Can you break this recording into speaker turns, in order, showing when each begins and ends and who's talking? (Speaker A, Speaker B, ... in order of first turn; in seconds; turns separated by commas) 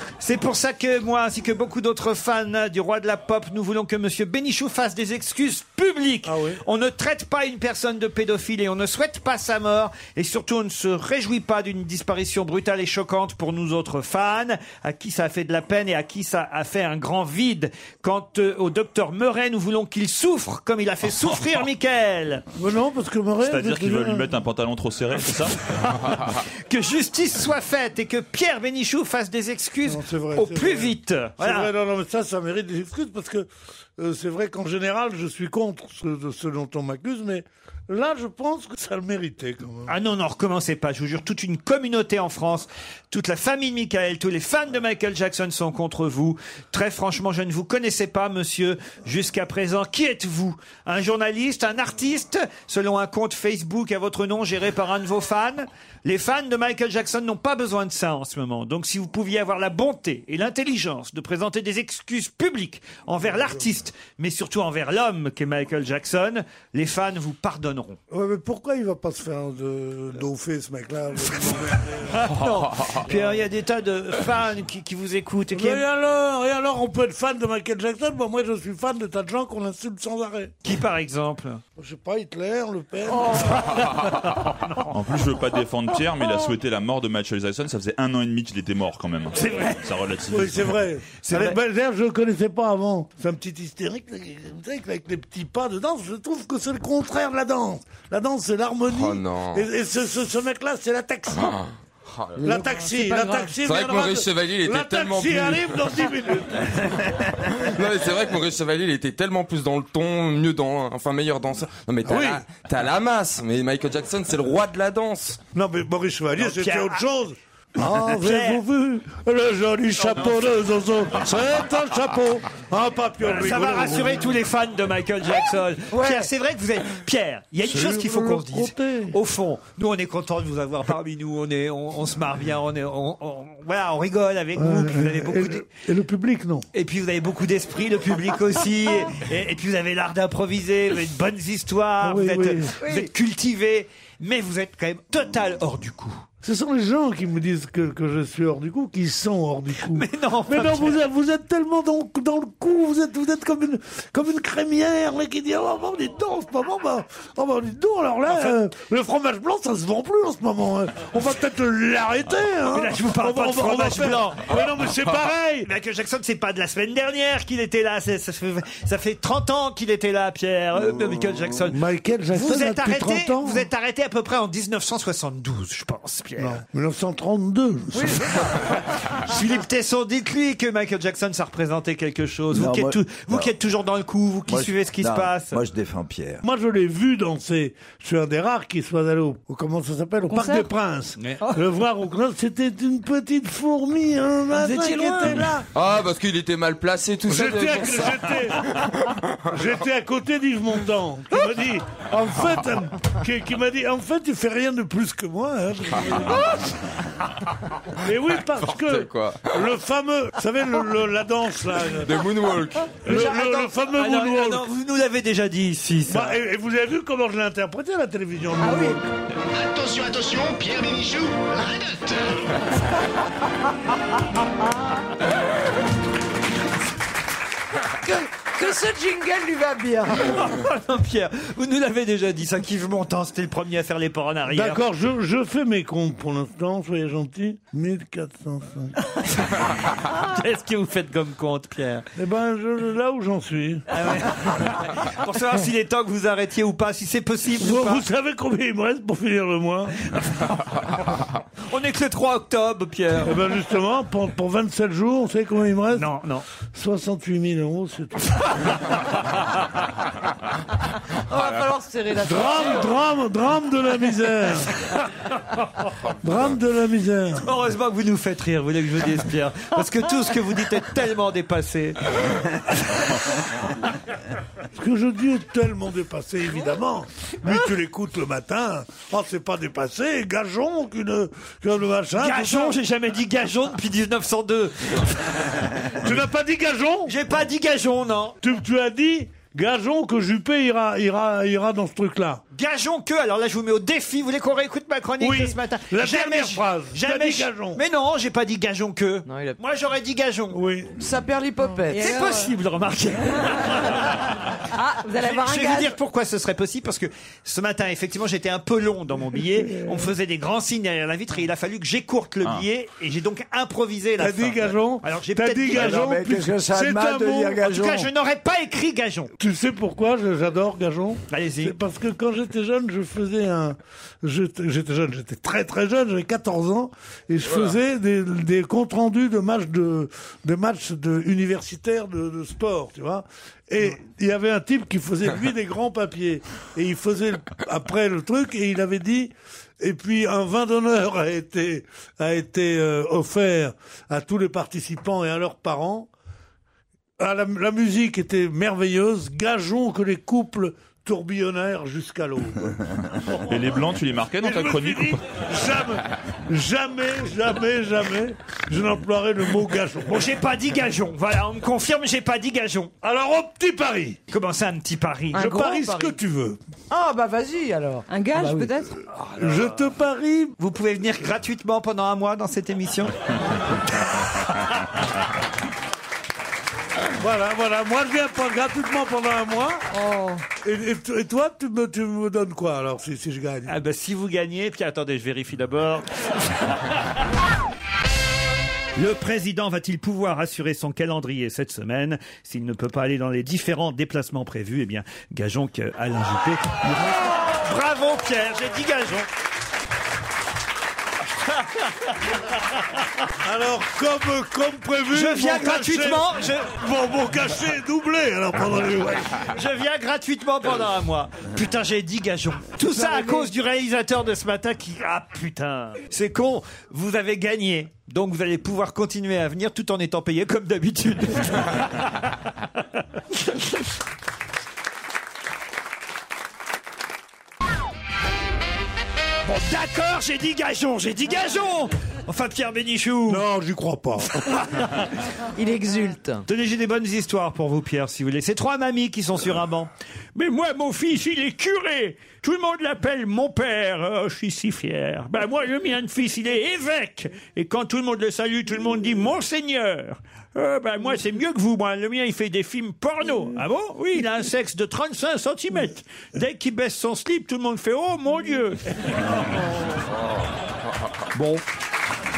Speaker A: 0.2-22.4, Speaker B: 6.2-6.6, Speaker B: 22.6-24.4, Speaker C: 23.4-26.2, Speaker A: 26.7-31.7, Speaker B: 29.8-33.5, Speaker B: 34.0-39.9, Speaker A: 39.9-68.0, Speaker B: 63.2-63.7, Speaker B: 68.1-72.3, Speaker A: 72.1-75.8, Speaker B: 73.0-73.4, Speaker B: 75.5-80.5, Speaker A: 80.6-81.6, Speaker B: 81.8-84.0, Speaker A: 83.2-83.9, Speaker A: 84.6-84.9, Speaker C: 84.9-90.8, Speaker A: 89.3-89.8, Speaker B: 90.3-101.6, Speaker A: 91.2-91.6, Speaker D: 98.9-99.7, Speaker D: 101.3-102.3, Speaker E: 102.4-103.6, Speaker B: 102.4-107.0, Speaker D: 103.6-106.0, Speaker D: 107.5-115.4, Speaker B: 112.0-112.5, Speaker B: 115.5-124.4, Speaker A: 116.4-117.0, Speaker A: 117.8-118.6, Speaker A: 123.2-135.6, Speaker E: 125.9-126.3, Speaker B: 127.6-129.2, Speaker B: 134.6-136.7, Speaker A: 136.7-146.2, Speaker B: 142.0-142.8, Speaker B: 146.4-165.7, Speaker A: 149.9-150.9, Speaker A: 158.3-158.6, Speaker A: 162.7-164.6, Speaker A: 165.6-176.6, Speaker B: 171.7-173.7, Speaker B: 176.4-178.4, Speaker E: 178.0-178.2, Speaker A: 178.7-185.6, Speaker F: 182.5-183.5, Speaker F: 184.5-186.4, Speaker B: 186.4-195.7, Speaker G: 190.3-190.7, Speaker A: 191.2-191.5, Speaker E: 194.5-195.4, Speaker G: 194.7-194.9, Speaker D: 195.3-199.4, Speaker B: 197.3-198.7, Speaker B: 199.5-206.6, Speaker D: 206.0-206.2, Speaker B: 208.0-212.1, Speaker D: 208.5-209.6, Speaker D: 211.9-213.0, Speaker B: 213.0-214.6, Speaker A: 213.1-216.4, Speaker B: 216.1-219.1, Speaker G: 218.6-218.9, Speaker H: 219.5-222.4, Speaker E: 228.0-230.4, Speaker A: 230.2-234.8, Speaker B: 234.5-238.9, Speaker A: 239.2-242.1, Speaker B: 242.2-243.8, Speaker A: 243.9-248.0, Speaker B: 247.5-249.9, Speaker A: 250.2-250.6, Speaker A: 251.7-253.4, Speaker B: 253.2-256.1, Speaker A: 255.9-256.4, Speaker B: 256.7-258.9, Speaker E: 261.3-262.9, Speaker B: 262.2-264.7, Speaker B: 266.2-267.4, Speaker A: 267.4-272.0, Speaker B: 274.7-282.8, Speaker A: 282.2-285.5, Speaker B: 286.0-287.2, Speaker A: 287.1-288.4, Speaker B: 288.4-292.4, Speaker A: 292.5-300.6, Speaker B: 295.2-297.8, Speaker E: 299.2-299.6, Speaker B: 300.5-301.0, Speaker E: 301.0-302.2, Speaker G: 301.9-302.5, Speaker A: 301.9-304.4, Speaker G: 303.5-303.9, Speaker G: 304.7-305.9, Speaker A: 305.2-316.1, Speaker B: 309.6-310.1, Speaker B: 314.2-317.6, Speaker F: 315.7-318.1, Speaker A: 317.6-319.3, Speaker B: 319.4-346.1, Speaker A: 321.3-321.8, Speaker B: 347.2-353.7, Speaker C: 353.5-355.4, Speaker B: 354.4-360.2, Speaker A: 360.0-362.9, Speaker B: 363.0-364.2, Speaker A: 364.3-365.4, Speaker E: 365.3-366.2, Speaker B: 365.3-366.6, Speaker E: 366.9-368.7, Speaker G: 368.1-369.0, Speaker A: 369.2-369.5, Speaker B: 369.3-370.6, Speaker A: 370.6-373.1, Speaker B: 377.2-379.9, Speaker B: 380.5-383.7, Speaker A: 383.6-386.8, Speaker A: 389.0-399.3, Speaker A: 401.5-402.4, Speaker B: 403.4-409.5, Speaker A: 405.1-406.8, Speaker A: 409.5-422.3, Speaker E: 412.9-413.5, Speaker A: 423.3-423.6, Speaker A: 429.4-433.4, Speaker B: 433.3-434.4, Speaker E: 435.5-436.4, Speaker A: 436.5-459.2, Speaker A: 461.3-461.6